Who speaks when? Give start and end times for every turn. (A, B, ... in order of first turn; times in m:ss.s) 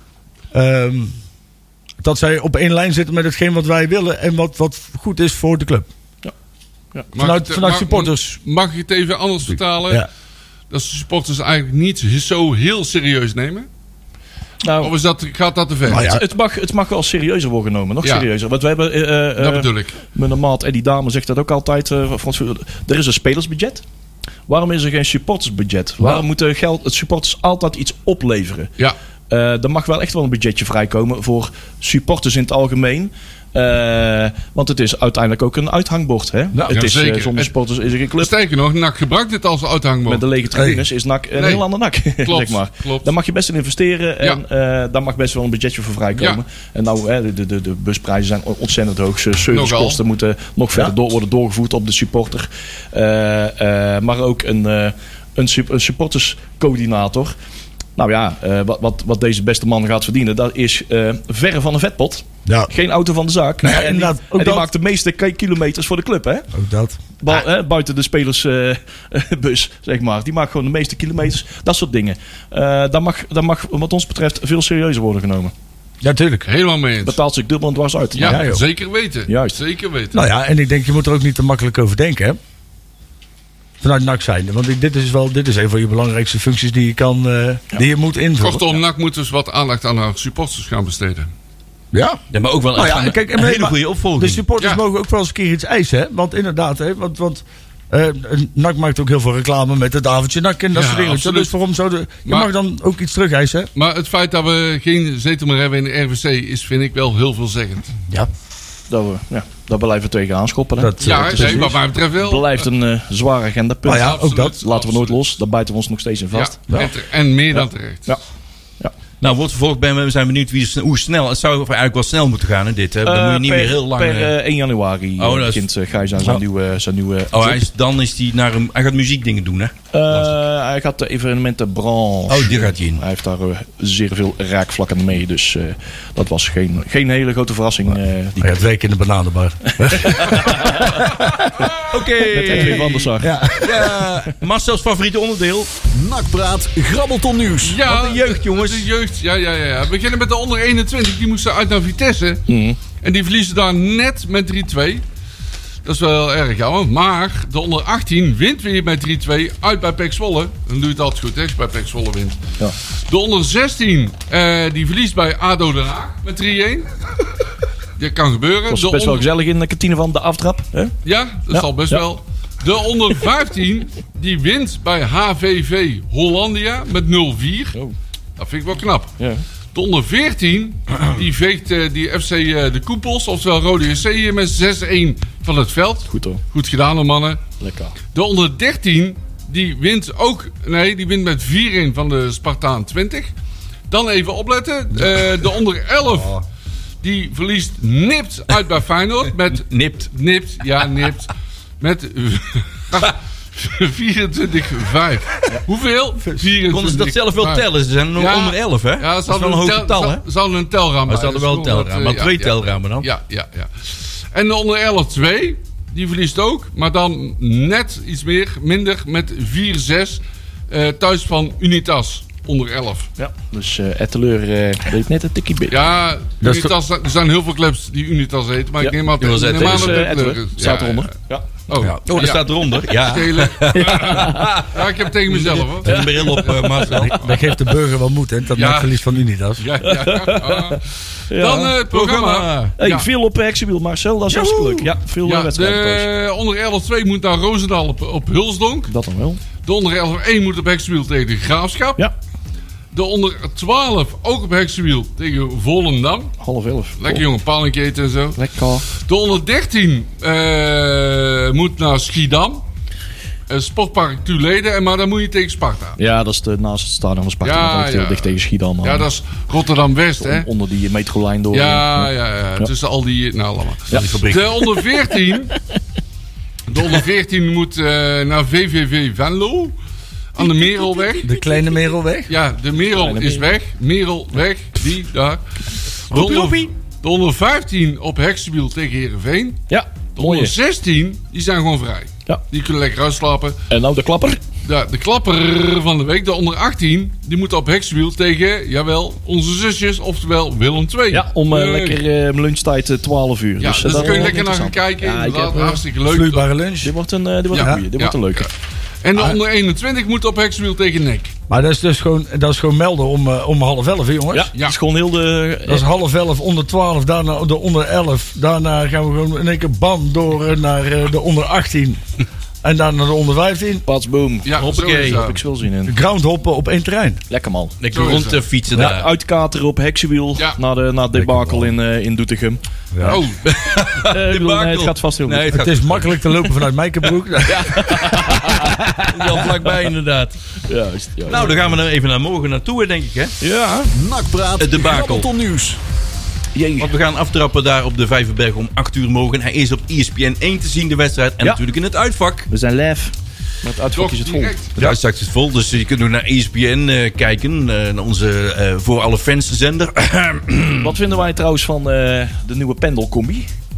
0:00.5-0:01.2 A
0:02.0-0:05.9 A
0:07.1-0:10.1 B
0:07.2-0:08.4 A
0:10.7-0:13.7 B
0:14.6-0:14.9 C
0:14.8-0:16.1 B
0:15.9-0:16.2 A
0:16.0-0:23.8 C
0:19.4-0:20.0 B
0:24.5-0:28.7 C
0:29.3-0:38.3 C
0:36.7-0:37.5 B
0:38.2-0:40.2 B
0:40.1-0:57.4 C
0:40.6-0:40.8 A
0:41.4-0:43.1 B
0:49.5-0:50.0 B
0:58.0-1:06.5 C
1:03.6-1:04.7 A
1:06.5-1:07.4 A
1:07.2-1:15.5 C
1:16.0-1:16.5 A
1:16.5-1:17.2 B
1:17.0-1:18.4 C
1:18.2-1:20.2 B
1:18.2-1:18.6 A
1:19.3-1:19.6 C
1:20.1-1:22.4 A
1:23.8-1:28.8 A
1:28.4-1:31.3 B
1:31.9-1:43.7 A
1:32.3-1:34.4 D
1:40.7-1:41.5 B
1:43.8-1:47.9 B
1:48.9-1:56.6 C
1:50.8-1:51.8 A
1:51.0-1:52.7 B
1:53.8-1:54.6 A
1:53.9-1:55.4 B
1:56.3-1:58.1 B
1:57.5-1:58.2 C
1:59.2-2:04.3 D
2:03.0-2:07.6 C
2:05.2-2:05.7 D
2:07.3-2:10.4 D
2:09.9-2:18.6 C
2:12.3-2:13.0 D
2:18.4-2:21.7 A
2:19.8-2:21.0 C
2:21.8-2:25.7 D
2:22.2-2:23.4 C
2:23.2-2:24.2 A
2:25.9-2:27.8 E
2:27.6-2:32.4 B
2:27.8-2:28.9 D
2:32.5-2:32.8 C
2:33.0-2:35.0 B
2:35.8-2:46.9 B
2:48.0-2:49.3 B
2:48.7-2:50.9 C
2:51.0-2:57.8 B
2:51.5-2:52.1 C
2:58.4-2:59.1 B
2:59.7-3:07.4 B
3:06.1-3:06.4 C
3:07.6-3:08.0 C
3:08.1-3:13.3 B
3:13.9-3:16.4 B
3:16.1-3:16.4 A
3:17.0-3:43.1 B
3:19.6-3:20.1 D
3:26.7-3:30.2 D
3:31.1-3:33.1 D
3:43.2-3:45.9 C
3:45.7-3:51.1 B
3:46.4-3:46.7 A
3:48.8-3:51.5 C
3:49.2-3:50.1 D
3:51.7-3:57.3 B
3:51.8-3:54.8 D
3:53.8-3:54.5 C
3:55.3-3:57.2 D
3:55.9-3:56.9 C
3:56.9-3:59.7 A
3:58.5-3:59.1 B
3:59.6-4:03.1 B
3:59.8-4:01.8 C
4:01.8-4:02.7 D
4:02.8-4:06.1 C
4:04.3-4:04.9 A
4:05.2-4:08.9 B
4:08.9-4:09.4 C
4:09.6-4:12.0 B
4:12.9-4:16.3 B
4:16.4-4:17.3 C
4:17.0-4:22.6 B
4:18.4-4:18.9 C
4:23.5-4:26.0 B
4:26.0-4:29.1 C
4:27.4-4:30.5 B
4:30.2-4:32.0 C
4:31.5-4:35.6 B
4:33.9-4:34.5 A
4:36.7-4:39.8 B
4:40.4-4:41.3 B
4:41.0-4:42.3 A
4:42.3-4:49.6 B
4:42.9-4:43.5 C
4:46.1-4:46.7 D
4:49.7-4:50.6 C
4:50.2-4:53.6 B
4:53.7-4:54.4 C
4:54.6-5:02.0 B
5:01.1-5:05.8 C
5:03.6-5:06.5 B
5:06.0-5:06.9 A
5:06.8-5:08.5 C
5:07.5-5:08.5 B
5:07.6-5:07.8 A
5:09.0-5:11.3 B
5:11.5-5:14.5 A
5:14.3-5:15.8 C
5:15.7-5:22.0 A
5:22.6-5:23.8 A
5:23.9-5:26.0 C
5:24.5-5:25.4 B
5:24.6-5:25.4 D
5:25.9-5:27.2 A
5:27.3-5:33.2 C
5:27.8-5:29.1 D
5:27.9-5:28.5 B
5:31.1-5:31.7 A
5:32.9-5:33.2 A
5:33.1-5:33.9 B
5:33.4-5:36.4 D
5:34.0-5:35.6 C
5:35.5-5:38.2 A
5:37.4-5:39.8 C
5:38.3-5:40.4 D
5:40.6-5:41.6 C
5:41.3-5:43.4 D
5:43.4-5:43.9 C
5:43.9-5:45.8 E
5:44.6-5:45.3 D
5:46.6-5:46.9 C
5:46.8-5:52.5 D
5:52.5-5:55.0 C
5:54.0-5:54.7 B
5:54.8-6:01.0 D
6:00.8-6:03.5 C